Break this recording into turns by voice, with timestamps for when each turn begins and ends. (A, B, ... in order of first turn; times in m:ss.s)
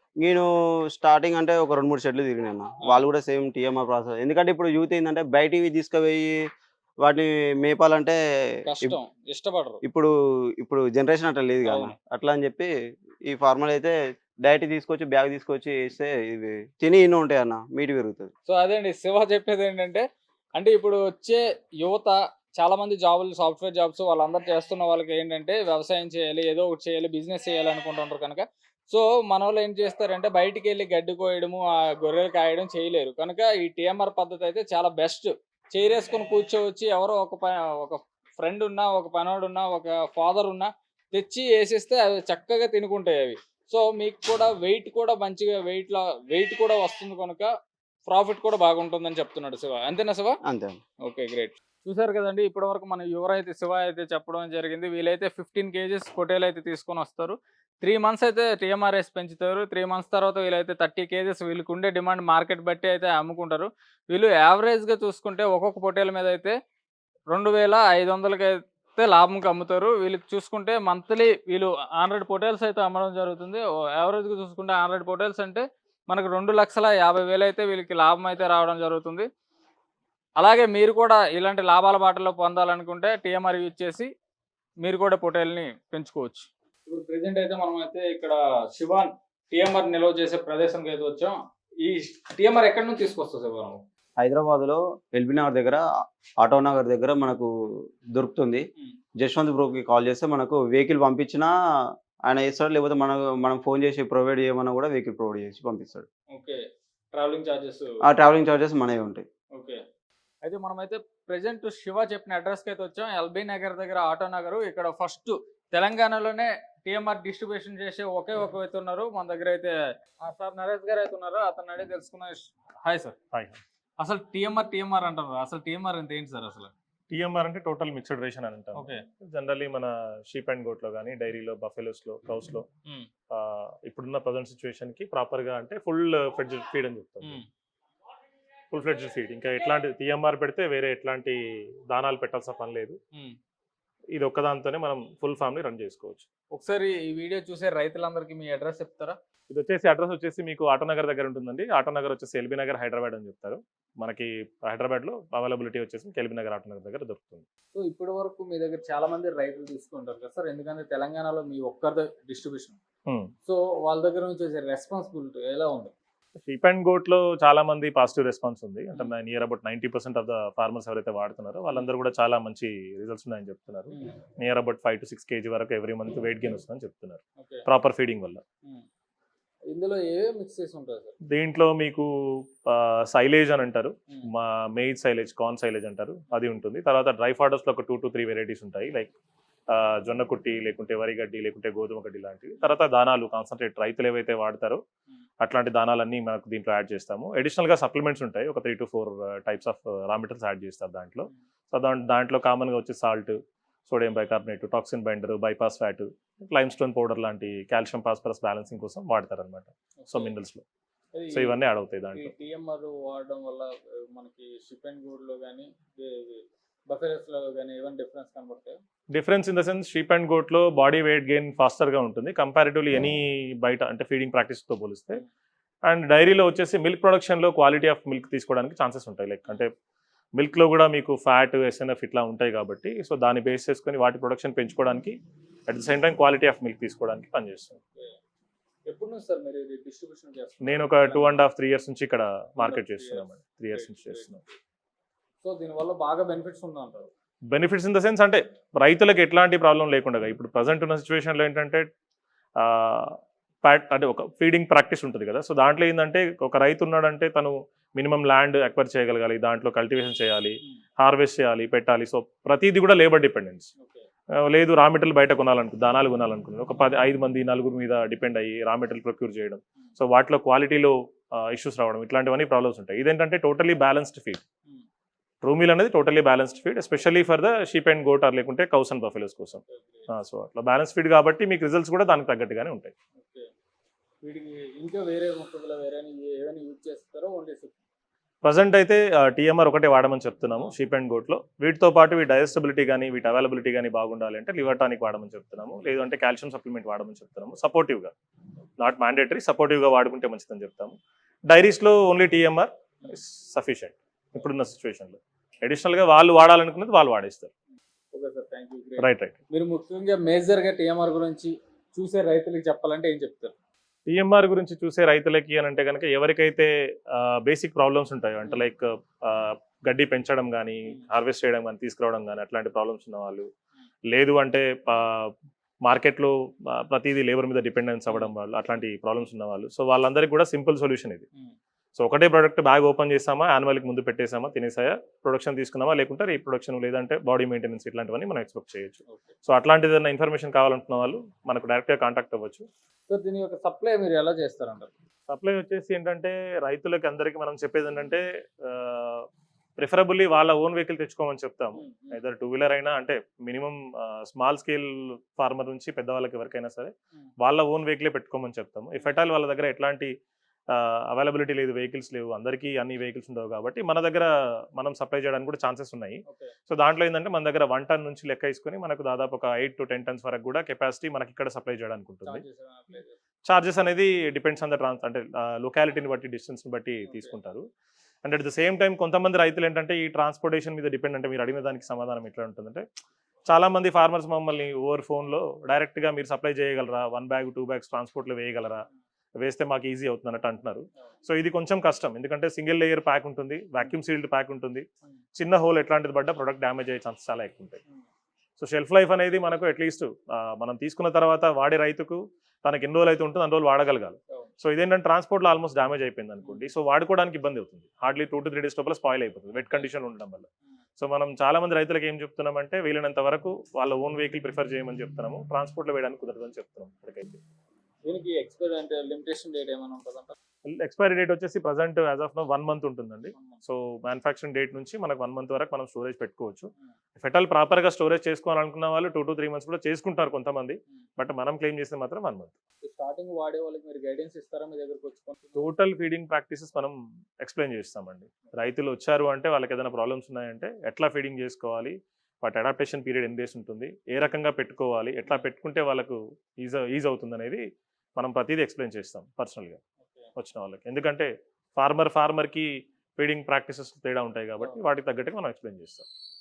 0:00.2-0:06.4 A
0:07.0-0:08.2 A
0:08.7-0:09.8 B
0:09.8-0:12.7 A
0:11.6-0:11.9 B
0:13.2-0:18.3 A
0:18.5-0:20.0 B
0:20.6-0:47.5 B
0:48.0-0:50.4 B
0:50.4-0:50.8 A
0:51.0-1:06.5 B
1:07.3-1:19.3 B
1:20.4-1:24.1 B
1:24.8-1:33.8 B
1:34.2-1:35.8 A
1:36.4-1:37.5 A
1:38.1-1:38.6 A
1:39.2-1:41.5 A
1:42.3-1:46.1 A
1:46.3-1:46.6 B
1:47.1-1:47.9 B
1:48.0-1:49.2 A
1:49.6-1:49.8 B
1:50.4-2:03.2 B
2:03.3-2:03.6 C
2:04.0-2:06.7 B
2:07.1-2:12.6 C
2:08.8-2:09.0 B
2:13.3-2:17.4 C
2:18.7-2:23.0 C
2:24.1-2:26.3 C
2:26.5-2:29.2 B
2:29.5-2:37.4 C
2:37.7-2:42.8 B
2:43.4-2:45.9 B
2:46.4-2:58.4 C
2:57.4-2:57.6 B
2:59.7-3:01.2 B
3:01.3-3:02.1 C
3:02.7-3:09.1 C
3:09.7-3:14.8 C
3:15.4-3:23.4 C
3:23.9-3:30.6 C
3:30.0-3:30.3 B
3:31.1-3:31.6 B
3:31.3-3:32.3 C
3:32.1-3:38.8 B
3:39.1-3:45.2 C
3:45.9-3:49.7 C
3:50.4-3:55.1 C
3:55.7-3:57.8 C
3:58.9-4:01.4 B
4:00.6-4:04.4 C
4:02.6-4:04.3 B
4:05.4-4:07.1 B
4:07.5-4:11.9 C
4:12.6-4:23.7 C
4:23.8-4:24.1 B
4:24.5-4:34.4 C
4:35.4-4:42.9 C
4:39.6-4:40.1 B
4:43.2-4:43.5 B
4:44.2-4:47.8 B
4:48.4-4:58.1 C
4:58.8-5:01.0 C
5:01.5-5:07.5 C
5:08.1-5:13.5 B
5:09.0-5:09.4 C
5:14.1-5:23.5 C
5:24.1-5:25.3 C
5:25.8-5:31.3 C
5:32.0-5:42.6 C
5:39.1-5:39.3 B
5:43.1-5:44.9 B
5:45.3-5:49.2 C
5:49.8-6:00.1 C
5:51.8-5:52.2 B
6:00.7-6:12.4 C
6:06.3-6:06.5 B
6:12.2-6:13.2 B
6:13.5-6:17.6 C
6:17.1-6:17.3 B
6:18.2-6:22.8 C
6:23.5-6:28.8 C
6:29.4-6:34.8 C
6:35.4-6:37.8 C
6:38.6-6:50.5 C
6:51.0-6:57.4 C
6:58.1-7:00.4 B
7:00.6-7:12.5 C
7:03.3-7:03.6 B
7:12.8-7:15.7 B
7:15.6-7:27.6 C
7:28.2-7:29.8 C
7:30.0-7:30.3 B
7:30.4-7:36.1 C